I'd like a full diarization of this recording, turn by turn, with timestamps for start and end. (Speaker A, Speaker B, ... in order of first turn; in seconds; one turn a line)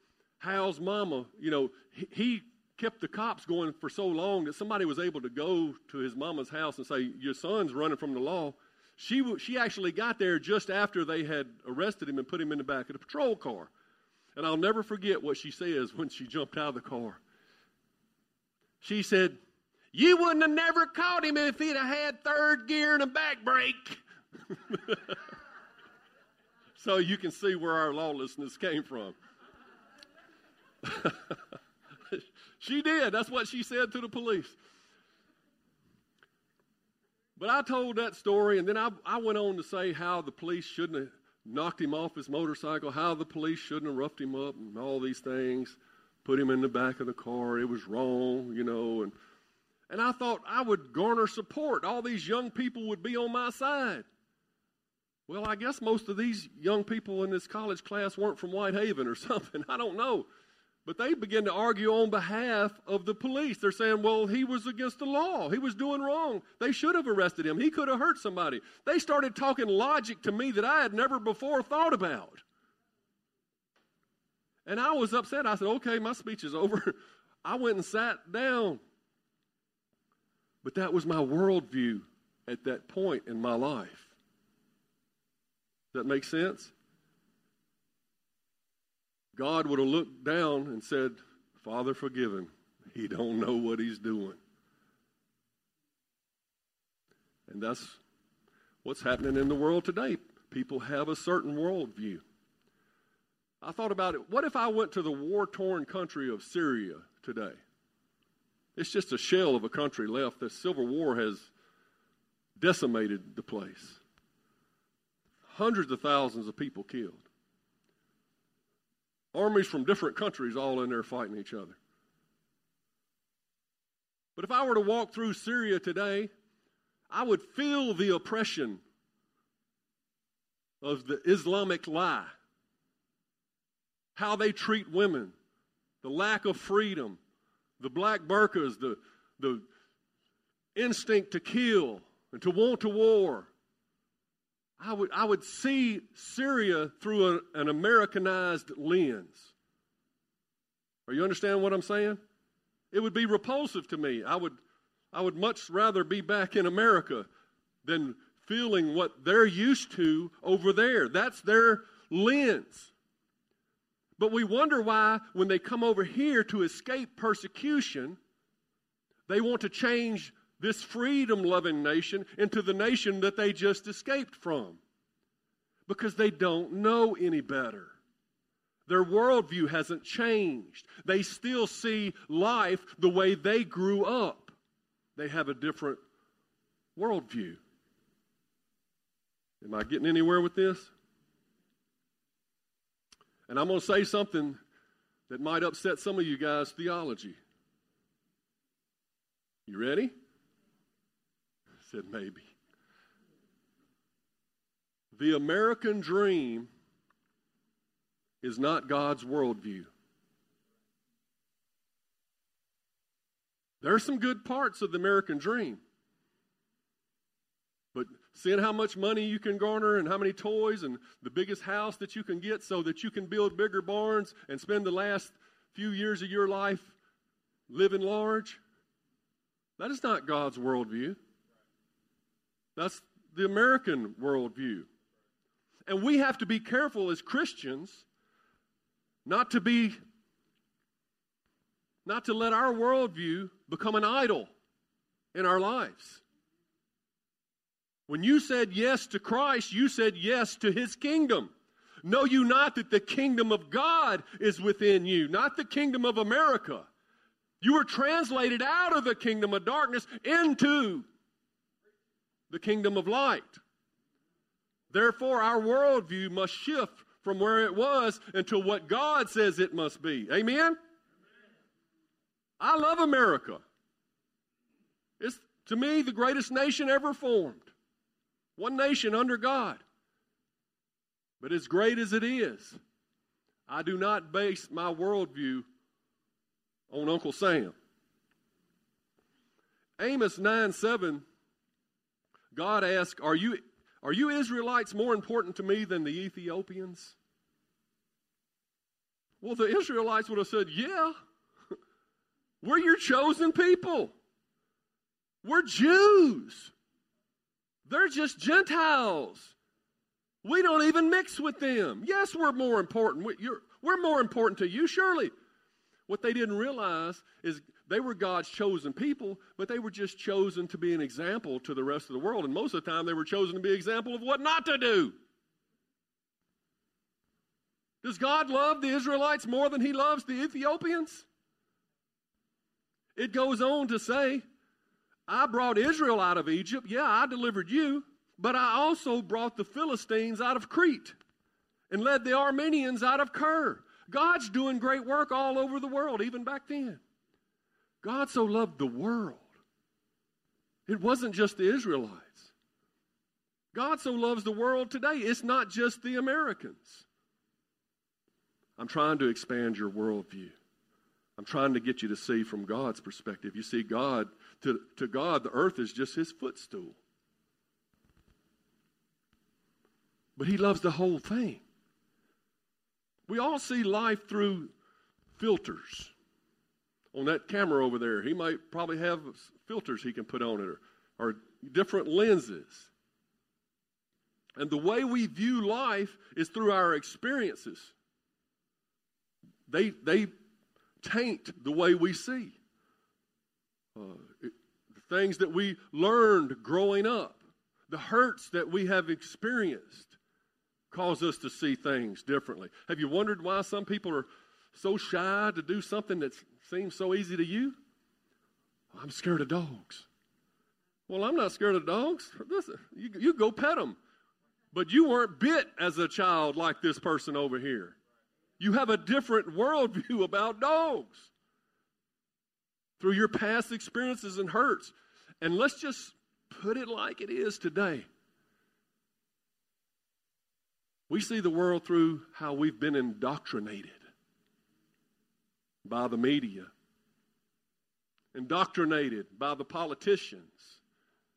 Speaker A: 0.4-13.7
Speaker A: 14.3-17.2
Speaker A: 18.8-19.4
Speaker A: 19.9-25.2
Speaker A: 26.8-29.1
Speaker A: 30.8-31.4
Speaker A: 32.1-34.6
Speaker A: 37.4-49.1
Speaker A: 49.9-54.0
Speaker A: 55.3-60.3
Speaker A: 60.8-72.4
Speaker A: 74.7-78.8
Speaker A: 80.6-84.1
Speaker A: 85.9-86.7
Speaker A: 89.3-94.4
Speaker A: 97.5-98.0
Speaker A: 98.8-102.2
Speaker A: 103.6-107.6
Speaker A: 108.8-111.5
Speaker A: 112.6-114.0
Speaker A: 115.5-117.3
Speaker A: 119.3-121.8
Speaker A: 124.3-126.3
Speaker A: 127.1-128.8
Speaker A: 130.8-132.3
Speaker A: 134.1-135.3
Speaker A: 136.0-137.2
Speaker A: 137.8-139.7
Speaker A: 140.7-143.5
Speaker A: 144.8-149.5
Speaker A: 151.1-152.2
Speaker A: 152.9-154.6
Speaker A: 155.1-157.3
Speaker A: 157.8-162.9
Speaker A: 164.2-168.2
Speaker A: 169.3-174.8
Speaker A: 175.9-178.0
Speaker A: 178.9-184.6
Speaker A: 185.2-186.0
Speaker A: 186.9-187.6
Speaker A: 189.6-190.9
Speaker A: 193.5-194.6
Speaker A: 195.3-197.4
Speaker A: 199.7-200.1
Speaker A: 201.8-202.4
Speaker A: 205.1-206.7
Speaker A: 208.4-209.9
Speaker A: 213.8-215.8
Speaker A: 217.9-226.9
Speaker A: 227.7-228.6
Speaker A: 229.8-231.2
Speaker A: 232.8-234.9
Speaker A: 235.9-238.1
Speaker A: 239.2-240.0
Speaker A: 242.0-244.5
Speaker A: 245.3-246.2
Speaker A: 248.1-251.5
Speaker A: 252.0-256.9
Speaker A: 257.6-261.1
Speaker A: 262.5-263.6
Speaker A: 264.9-270.8
Speaker A: 272.6-273.6
Speaker A: 275.2-277.7
Speaker A: 278.6-279.8
Speaker A: 281.4-282.8
Speaker A: 283.7-285.7
Speaker A: 286.9-287.7
Speaker A: 290.0-291.2
Speaker A: 292.5-297.1
Speaker A: 299.4-301.1
Speaker A: 302.6-304.1
Speaker A: 305.4-306.7
Speaker A: 307.9-309.5
Speaker A: 310.4-315.3
Speaker A: 316.1-325.1
Speaker A: 328.0-331.2
Speaker A: 333.1-334.4
Speaker A: 335.3-341.1
Speaker A: 341.9-347.0
Speaker A: 348.0-349.5
Speaker A: 350.9-352.5
Speaker A: 353.7-357.1
Speaker A: 358.8-360.6
Speaker A: 361.4-367.0
Speaker A: 370.4-371.6
Speaker A: 373.3-374.7
Speaker A: 375.4-376.1
Speaker A: 377.1-382.9
Speaker A: 384.6-387.9
Speaker A: 389.7-390.3
Speaker A: 391.0-392.6
Speaker A: 393.9-400.2
Speaker A: 400.9-407.8
Speaker A: 408.9-410.1
Speaker A: 411.1-414.0
Speaker A: 414.7-418.0
Speaker A: 418.6-421.3
Speaker A: 423.0-428.1
Speaker A: 431.1-434.0
Speaker A: 435.8-436.7
Speaker A: 438.3-440.8